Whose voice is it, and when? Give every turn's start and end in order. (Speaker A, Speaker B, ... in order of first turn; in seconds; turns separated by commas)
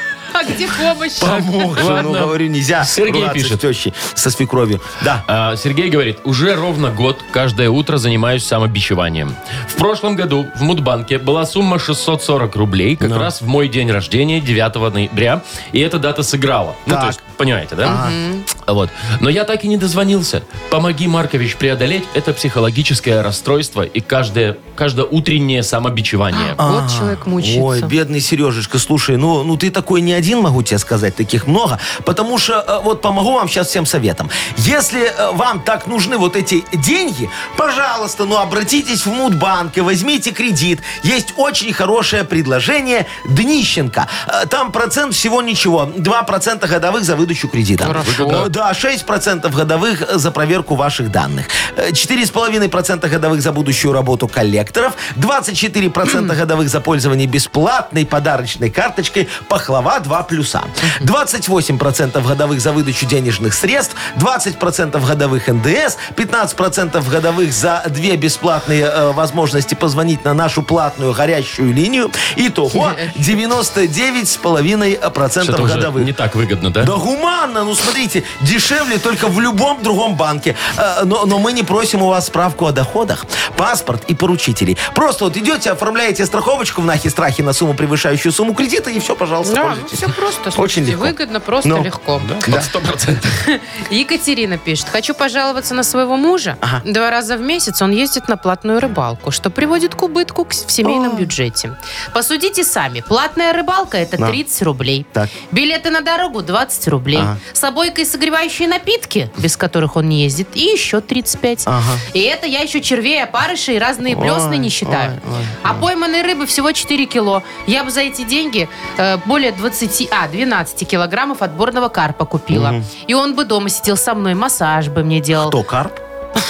Speaker A: 0.3-1.9, Speaker B: 1.2-5.2, Speaker C: 1.8-3.6, Speaker C: 5.3-18.0, Speaker B: 13.0-13.3, Speaker B: 16.9-17.2, Speaker B: 17.8-18.2, Speaker A: 17.9-18.4, Speaker C: 18.6-26.6, Speaker A: 26.3-27.9, Speaker B: 26.6-76.1, Speaker A: 47.8-48.5, Speaker C: 47.9-48.5, Speaker A: 56.1-56.3, Speaker A: 72.7-73.2, Speaker C: 75.4-76.9, Speaker B: 76.8-91.9, Speaker A: 89.4-92.3, Speaker C: 92.2-93.3, Speaker B: 92.4-92.7, Speaker A: 93.3-125.6, Speaker B: 100.8-101.3, Speaker B: 111.7-112.0, Speaker B: 114.1-115.8, Speaker B: 122.5-122.9, Speaker B: 125.3-126.0